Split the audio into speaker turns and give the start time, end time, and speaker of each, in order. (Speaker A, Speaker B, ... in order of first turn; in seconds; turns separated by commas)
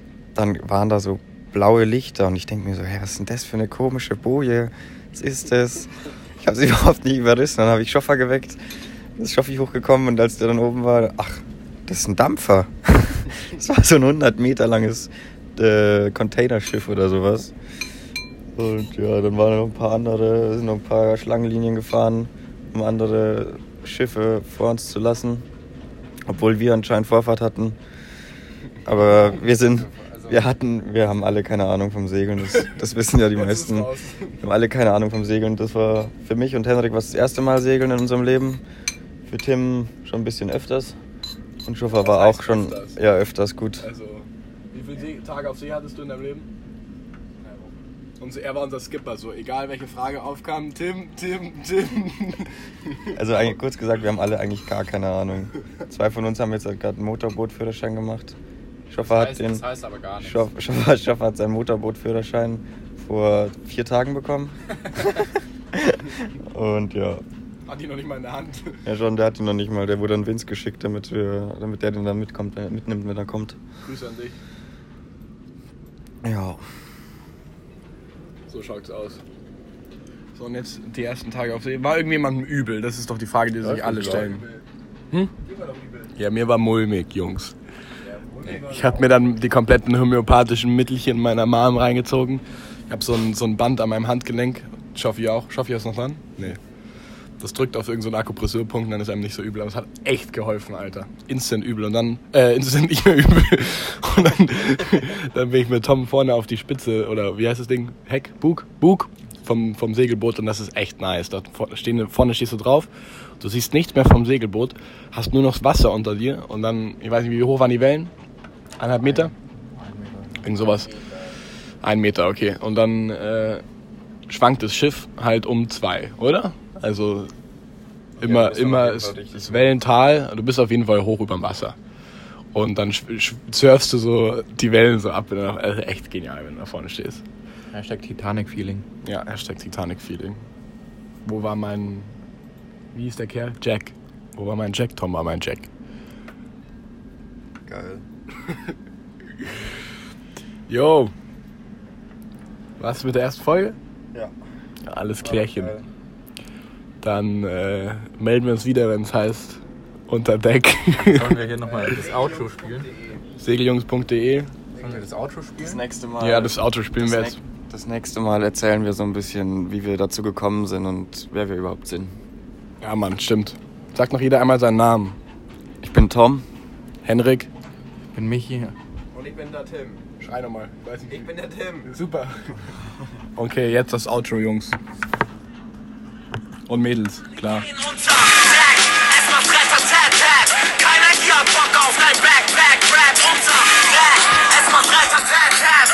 Speaker A: 0.3-8.6, Speaker A: 9.2-17.5, Speaker A: 18.6-25.4, Speaker A: 26.3-27.8, Speaker A: 28.8-38.6, Speaker B: 33.2-34.5, Speaker A: 39.3-41.0, Speaker A: 41.6-43.9, Speaker B: 41.8-43.0, Speaker B: 43.8-46.5, Speaker C: 47.4-47.9, Speaker B: 48.2-53.2, Speaker A: 53.1-58.4, Speaker A: 58.9-59.7, Speaker D: 59.0-60.5, Speaker A: 60.2-65.2, Speaker A: 65.7-67.2, Speaker B: 67.7-68.8, Speaker A: 68.8-73.6, Speaker B: 73.8-74.4, Speaker A: 76.2-76.6, Speaker B: 78.5-79.2, Speaker B: 80.3-84.4, Speaker D: 83.6-84.3, Speaker C: 84.0-84.6, Speaker C: 85.4-86.1, Speaker B: 86.1-87.5, Speaker C: 88.0-89.4, Speaker B: 88.4-96.6, Speaker B: 97.4-118.1, Speaker B: 118.8-119.3, Speaker D: 119.0-120.5, Speaker B: 120.4-120.9, Speaker C: 120.6-121.3, Speaker B: 121.8-123.6, Speaker B: 124.3-127.3, Speaker A: 128.2-129.8, Speaker B: 128.2-131.8, Speaker B: 132.5-137.2, Speaker D: 137.7-138.8, Speaker B: 139.0-140.4, Speaker B: 141.2-142.1, Speaker B: 142.9-145.7, Speaker A: 147.6-148.0, Speaker B: 150.7-151.1, Speaker B: 152.8-153.8, Speaker B: 154.8-155.8, Speaker A: 155.2-155.8, Speaker B: 157.0-161.4, Speaker D: 161.1-162.8, Speaker C: 161.6-163.2, Speaker B: 163.4-164.5, Speaker C: 164.7-165.0, Speaker D: 164.8-165.8, Speaker A: 165.6-172.1, Speaker B: 166.2-167.4, Speaker B: 172.8-175.2, Speaker A: 175.8-176.4, Speaker B: 177.0-177.5, Speaker D: 178.1-178.7, Speaker C: 179.1-180.1, Speaker B: 180.2-182.8, Speaker C: 181.1-181.9, Speaker B: 183.3-184.8, Speaker B: 186.7-187.7, Speaker E: 187.8-190.2, Speaker E: 191.6-192.3, Speaker E: 194.6-195.4